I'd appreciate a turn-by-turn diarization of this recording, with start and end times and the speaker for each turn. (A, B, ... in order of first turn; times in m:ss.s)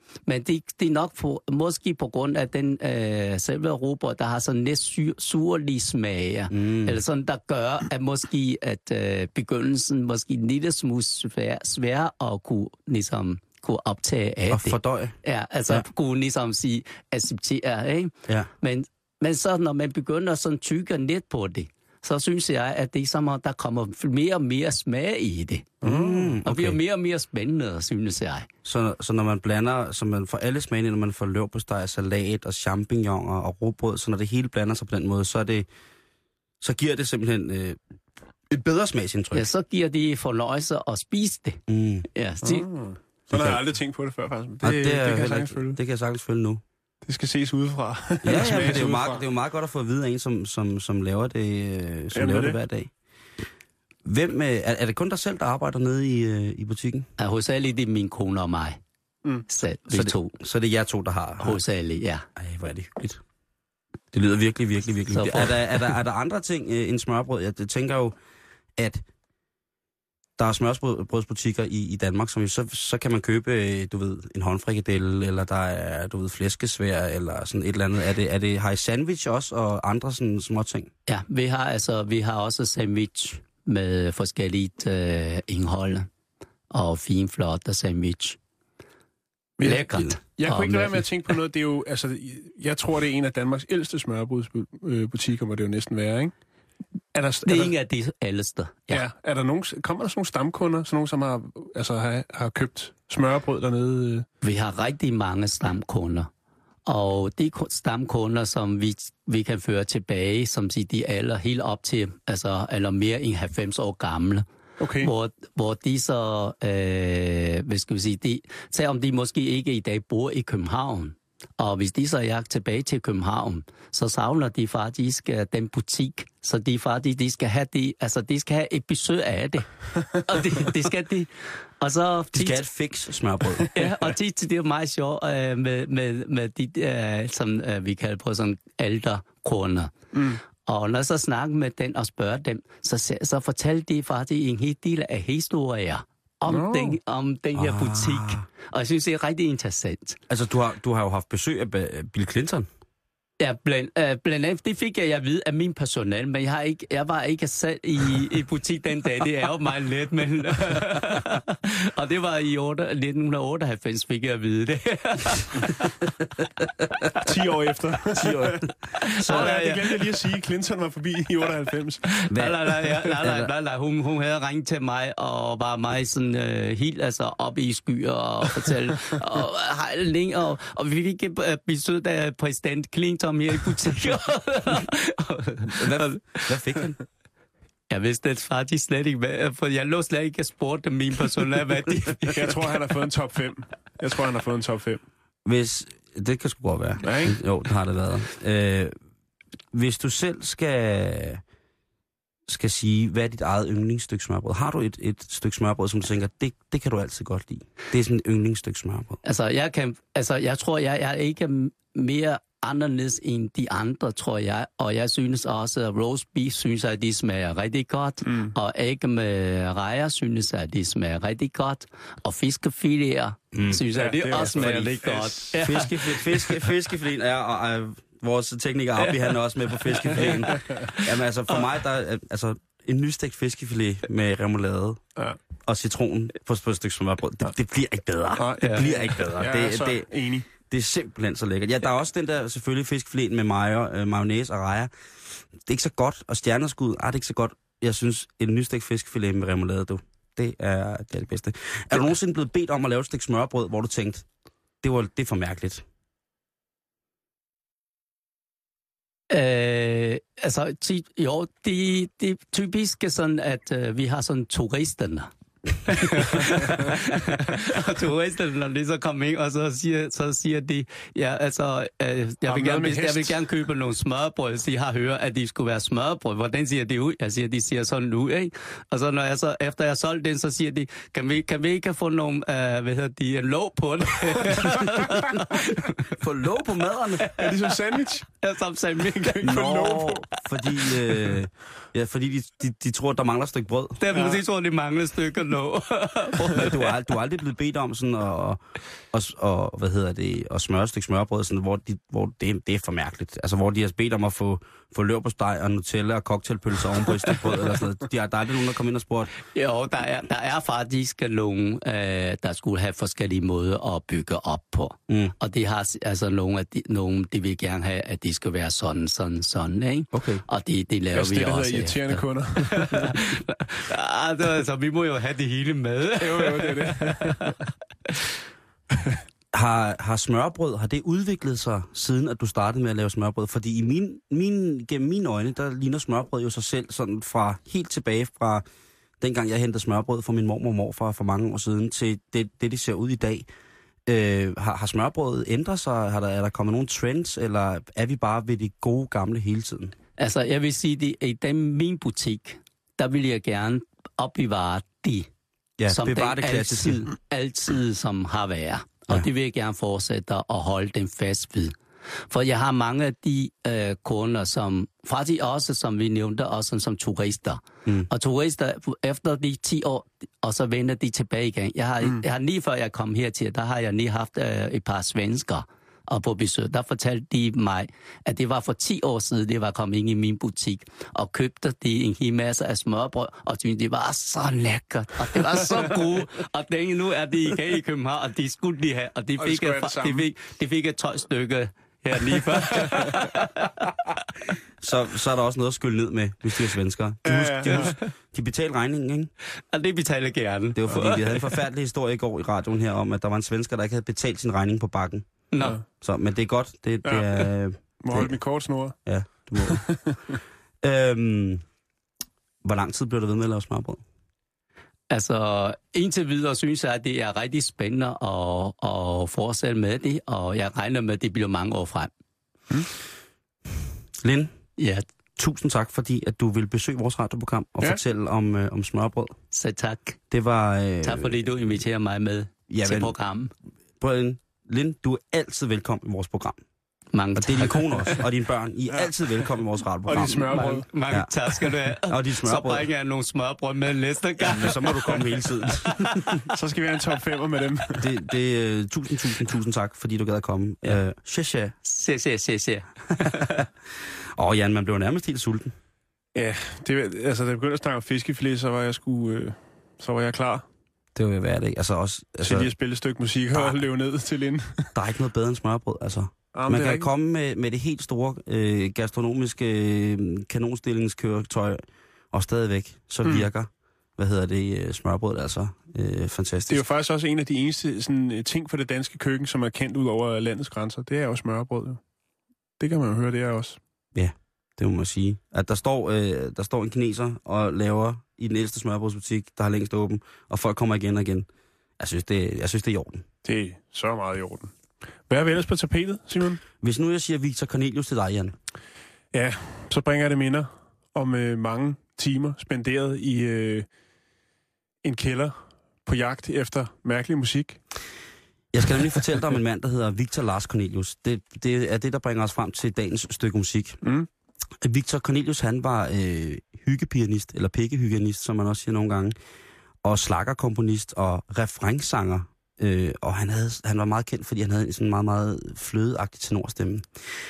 0:00.3-0:25.8 A
0:06.5-0:07.0 B
0:14.5-0:15.2 B
0:25.8-0:26.3 C
0:25.8-0:26.8 B
0:26.4-0:28.5 A
0:28.6-0:35.7 B
0:36.6-0:37.8 B
0:38.5-0:39.5 B
0:39.3-0:41.6 A
0:41.7-0:42.1 B
0:42.1-0:42.7 A
0:42.4-0:45.8 C
0:43.3-0:43.6 B
0:44.6-0:46.6 B
0:47.0-0:49.2 C
0:48.2-0:52.9 B
0:48.5-0:48.8 A
0:52.1-0:52.6 C
0:54.0-0:57.1 B
0:57.2-0:58.8 A
0:59.5-1:00.4 A
0:59.9-1:01.6 B
1:01.4-1:02.2 A
1:02.4-1:03.2 B
1:04.1-1:08.1 B
1:05.1-1:05.8 A
1:08.8-1:09.0 B
1:10.4-1:20.9 B
1:21.1-1:26.1 A
1:26.7-1:28.4 A
1:29.6-1:36.3 C
1:29.6-1:31.0 A
1:37.1-1:37.7 C
1:37.4-1:39.0 A
1:38.9-1:44.2 C
1:44.4-1:46.3 A
1:46.8-1:54.4 A
1:54.8-1:55.1 C
1:55.0-2:12.6 A
2:12.3-2:13.8 B
2:13.7-2:19.9 A
2:20.1-2:20.4 C
2:20.6-2:30.2 A
2:26.5-2:27.0 C
2:27.6-2:28.4 B
2:30.3-2:32.7 B
2:33.4-2:45.9 A
2:47.2-2:52.1 C
2:48.2-2:48.6 B
2:49.0-2:50.0 A
2:49.2-2:49.5 B
2:52.2-3:06.5 A
2:52.3-2:53.5 B
3:05.7-3:07.0 B
3:07.9-3:12.6 A
3:12.3-3:15.0 C
3:15.4-3:18.9 B
3:17.0-3:17.4 C
3:19.7-3:21.4 B
3:22.5-3:29.2 B
3:29.2-3:46.4 A
3:38.2-3:38.5 C
3:43.5-3:44.9 B
3:43.9-3:45.6 C
3:45.6-3:55.0 B
3:50.0-3:50.3 A
3:55.6-4:04.9 B
3:58.4-4:00.5 C
3:58.6-3:58.8 A
4:05.6-4:14.2 B
4:14.8-4:15.8 B
4:19.3-4:25.3 A
4:25.8-4:46.1 A
4:32.4-4:33.4 C
4:46.0-4:47.3 B
4:47.4-4:48.3 C
4:48.4-4:49.5 A
4:49.0-4:50.3 C
4:49.4-4:54.0 B
4:54.0-4:56.8 A
4:54.1-4:54.4 C
4:56.5-4:58.6 B
4:59.1-5:09.3 B
5:09.5-5:27.5 A
5:15.1-5:15.3 B
5:20.1-5:20.4 B
5:21.1-5:23.2 C
5:26.2-5:27.5 C
5:29.5-5:38.6 B
5:39.2-5:43.5 B
5:44.1-5:49.9 B
5:50.2-5:55.3 A
5:55.8-5:57.1 B
5:55.9-6:01.7 A
6:02.3-6:33.9 A
6:29.4-6:30.3 C
6:32.8-6:33.0 C
6:34.8-6:39.3 B
6:37.2-6:37.9 C
6:37.7-6:38.0 A
6:39.7-6:41.5 A
6:40.8-6:45.3 B
6:45.5-6:45.8 A
6:45.9-6:48.3 B
6:47.0-6:47.5 C
6:48.0-6:49.0 C
6:49.0-6:50.0 B
6:49.5-6:50.3 C
6:50.8-6:51.6 B
6:52.6-6:54.0 B
6:55.1-7:02.1 A
7:04.2-7:04.5 B
7:04.8-7:05.0 A
7:05.4-7:09.3 B
7:09.5-7:10.2 A
7:10.3-7:11.5 B
7:11.0-7:13.5 A
7:12.7-7:13.2 B
7:14.0-7:16.6 B
7:17.1-7:18.2 A
7:17.3-7:21.3 B
7:20.0-7:20.9 C
7:20.5-7:25.1 A
7:22.0-7:22.9 B
7:24.4-7:26.4 B
7:26.0-7:26.3 A
7:26.5-7:28.1 C
7:28.0-7:31.7 B
7:31.8-7:33.6 A
7:33.2-7:33.7 B
7:34.4-7:35.7 B
7:36.3-7:40.6 C
7:41.1-7:42.7 B
7:42.4-7:44.9 C
7:43.5-7:43.8 B
7:44.9-7:56.8 B
7:46.5-7:47.1 C
7:53.2-7:53.5 C
7:56.7-8:02.0 C
8:02.8-8:03.8 C
8:04.1-8:11.5 B
8:12.0-8:13.2 B
8:13.4-8:14.7 C
8:15.3-8:16.6 C
8:16.8-8:18.5 B
8:19.3-8:23.9 C
8:25.0-8:27.8 C
8:28.7-8:34.0 B
8:34.0-8:34.3 C
8:34.8-8:39.3 B
8:40.0-8:47.1 B